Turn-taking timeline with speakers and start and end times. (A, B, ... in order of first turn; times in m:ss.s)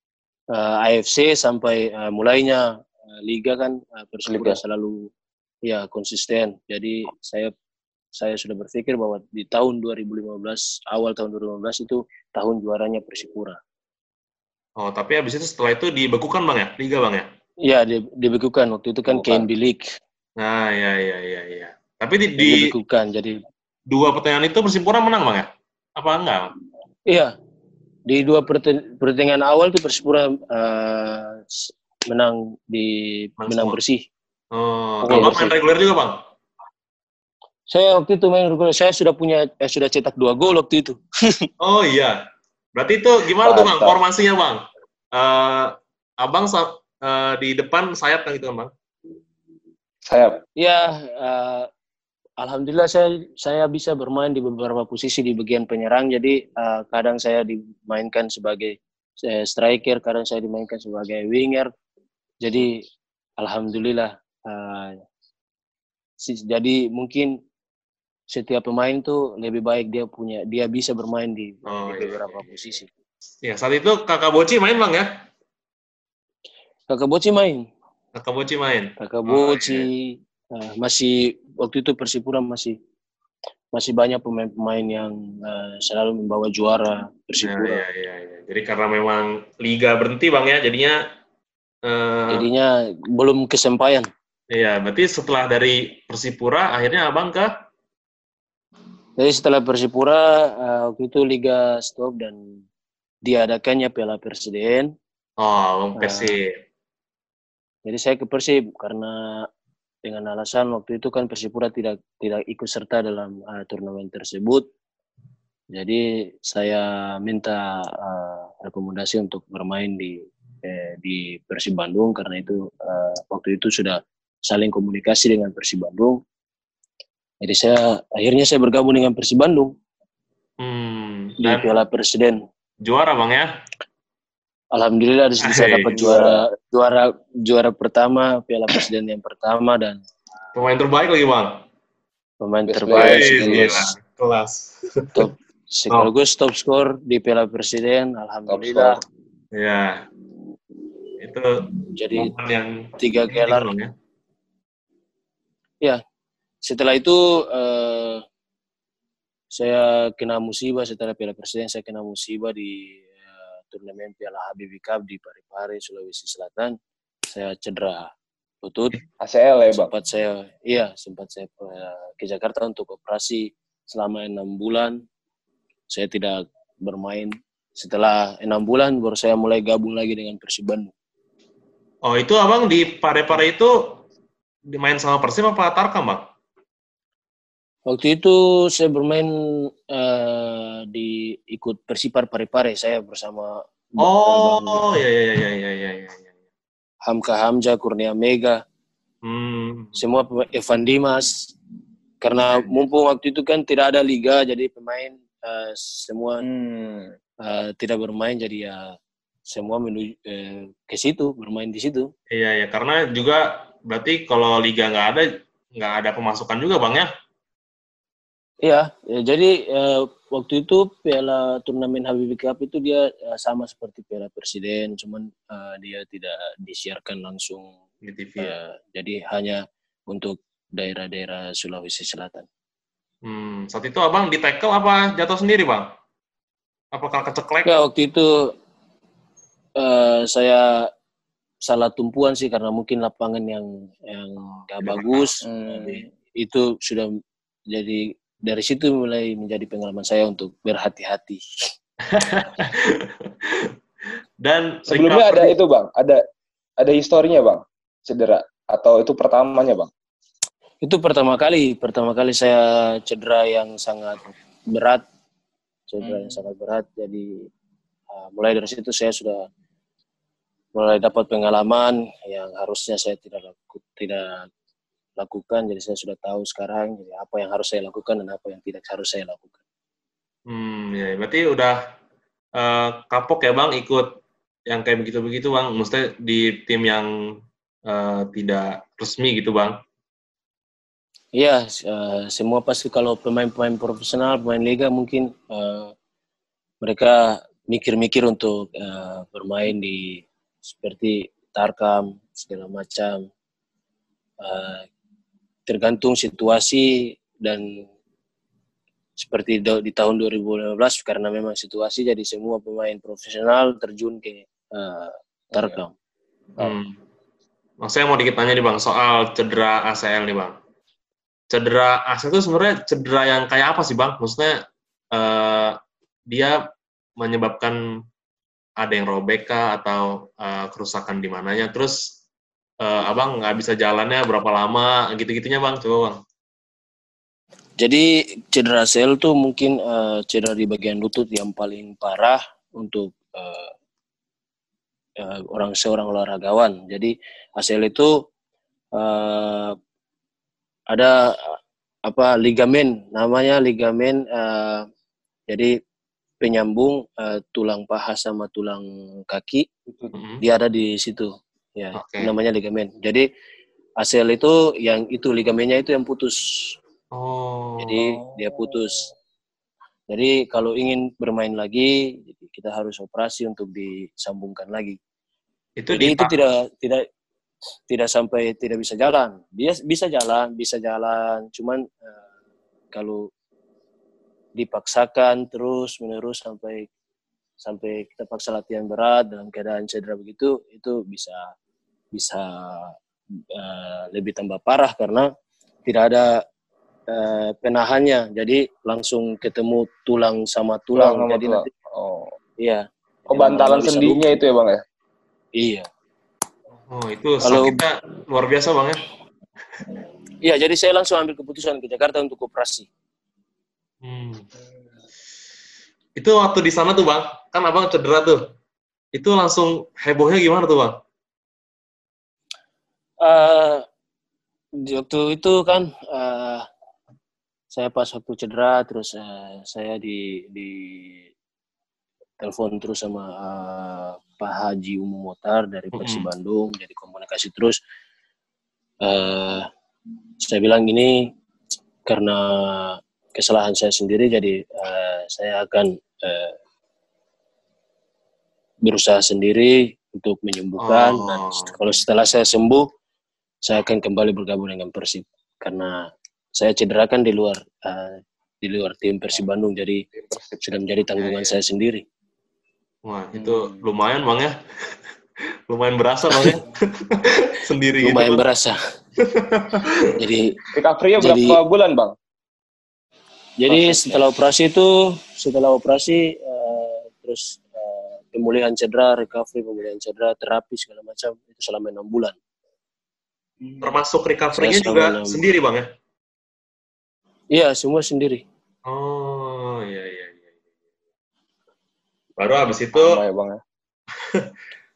0:00.5-0:02.7 A
0:03.2-0:05.1 A
0:04.3-0:04.6 B
0:05.7-0:07.5 A
0:08.2-0:13.6 A
0:14.8-0:17.3 C
0:17.6-0:19.8 A
0:19.1-0:19.5 B
0:20.4-0:22.7 C
0:22.4-0:23.3 A
0:23.9-0:26.5 C
0:28.1-0:34.0 A
0:33.4-0:33.8 C
0:34.5-0:36.2 C
0:35.0-0:35.5 A
0:35.1-0:35.5 B
0:37.7-0:41.5 A
0:41.6-0:42.2 C
0:42.8-0:44.6 C
0:43.4-0:44.0 B
0:45.1-0:48.7 C
0:50.0-0:50.4 B
0:50.6-0:51.7 A
0:52.4-1:01.7 A
1:02.4-1:02.8 A
1:03.4-1:05.0 A
1:06.2-1:07.4 A
1:08.3-1:12.9 A
1:11.7-1:12.6 C
1:13.4-1:15.2 C
1:16.9-1:17.7 A
1:18.2-1:19.9 C
1:19.0-1:22.8 A
1:23.7-1:27.8 A
1:27.4-1:31.0 C
1:31.8-1:32.5 C
1:32.3-1:34.1 A
1:34.5-1:37.6 C
1:39.2-1:42.6 A
1:43.2-1:44.9 A
1:45.4-1:46.6 C
1:46.0-1:46.3 A
1:47.9-1:49.5 A
1:50.0-1:54.7 A
1:55.7-2:06.2 A
2:07.4-2:09.7 A
2:10.6-2:11.7 C
2:11.4-2:12.4 A
2:12.8-2:13.5 C
2:14.7-2:20.0 A
2:15.4-2:16.0 C
2:15.9-2:16.4 B
2:20.5-2:21.6 C
2:22.4-2:23.9 A
2:22.7-2:23.9 B
2:22.9-2:25.3 C
2:25.2-2:29.0 A
2:28.5-2:29.0 B
2:29.5-2:30.1 C
2:31.2-2:33.9 C
2:32.0-2:32.3 A
2:33.0-2:33.7 A
2:36.6-2:38.2 A
2:39.5-2:46.8 A
2:47.3-2:48.1 A
2:48.6-2:49.0 A
2:49.2-2:49.9 B
2:49.7-2:55.0 A
2:55.9-3:00.9 A
3:02.0-3:04.0 C
3:04.7-3:06.3 C
3:07.9-3:15.0 A
3:14.0-3:16.3 C
3:17.1-3:18.6 A
3:19.2-3:20.0 C
3:20.0-3:21.5 A
3:22.2-3:26.4 A
3:26.4-3:27.2 B
3:27.4-3:29.0 A
3:29.5-3:32.1 A
3:32.3-3:37.1 C
3:38.6-3:47.7 A
3:48.0-3:48.6 C
3:48.4-3:52.5 A
3:53.2-3:55.9 C
3:56.9-3:57.8 C
3:57.7-3:58.5 A
3:59.8-4:00.9 A
4:01.7-4:07.1 A
4:04.8-4:05.3 C
4:05.4-4:06.1 B
4:07.7-4:11.7 A
4:12.1-4:13.7 C
4:14.4-4:15.6 C
4:14.9-4:16.2 B
4:16.8-4:19.9 B
4:20.8-4:25.0 A
4:25.9-4:27.5 A
4:26.0-4:26.4 B
4:28.1-4:29.5 A
4:30.8-4:34.5 A
4:35.2-4:39.6 A
4:40.5-4:41.8 C
4:42.6-4:47.1 C
4:47.9-4:49.8 C
4:51.4-4:55.9 A
4:56.8-5:03.3 A
5:04.4-5:04.9 A
5:05.7-5:07.9 A
5:09.2-5:15.9 A
5:15.5-5:15.8 B
5:16.6-5:17.0 C
5:17.8-5:20.6 C
5:21.5-5:24.6 C
5:25.1-5:25.8 C
5:26.3-5:26.6 C
5:27.2-5:27.8 C
5:28.8-5:32.0 C
5:32.8-5:36.2 C
5:37.8-5:43.7 A
5:45.2-5:48.1 A
5:49.0-5:49.8 A
5:50.9-5:54.9 A
5:56.4-5:59.7 A
6:00.1-6:00.4 C
6:00.4-6:03.2 A
6:02.0-6:02.3 C
6:04.0-6:06.8 A
6:07.1-6:08.0 C
6:07.8-6:09.1 A
6:08.3-6:08.7 B
6:10.1-6:15.0 A
6:15.8-6:16.4 C
6:15.9-6:17.1 A
6:17.9-6:22.1 A
6:22.9-6:23.3 A
6:24.6-6:26.9 A
6:27.6-6:31.5 A
6:32.1-6:33.0 A
6:33.5-6:35.3 A
6:35.9-6:36.4 A
6:37.1-6:41.7 A
6:41.0-6:42.3 B
6:42.6-6:44.2 A
6:43.3-6:44.8 B
6:45.6-6:45.9 A
6:46.9-6:49.0 C
6:47.4-6:47.8 A
6:50.4-6:52.9 A
6:54.0-6:54.4 C
6:56.2-6:58.4 C
6:59.1-7:01.0 C
7:03.2-7:03.9 A
7:04.8-7:06.7 A
7:07.7-7:11.3 A
7:12.4-7:17.8 A
7:15.9-7:16.3 C
7:19.0-7:19.7 A
7:20.4-7:21.3 A
7:22.1-7:26.6 A
7:28.8-7:32.9 A
7:30.8-7:31.7 C
7:33.6-7:40.0 A
7:40.1-7:41.4 B
7:40.6-7:42.0 A
7:43.0-7:44.6 C
7:43.4-7:43.8 B
7:45.7-7:48.4 C
7:48.0-7:48.8 A
7:49.2-7:50.2 C
7:50.2-7:50.6 A
7:50.7-7:52.1 B
7:51.2-7:51.6 A
7:53.6-8:02.4 A
7:53.7-7:54.2 B
8:03.6-8:03.9 B
8:03.8-8:05.9 C
8:04.6-8:05.4 A
8:07.5-8:08.4 A
8:08.9-8:10.4 C
8:12.4-8:13.2 C
8:13.0-8:13.6 B
8:14.2-8:14.5 C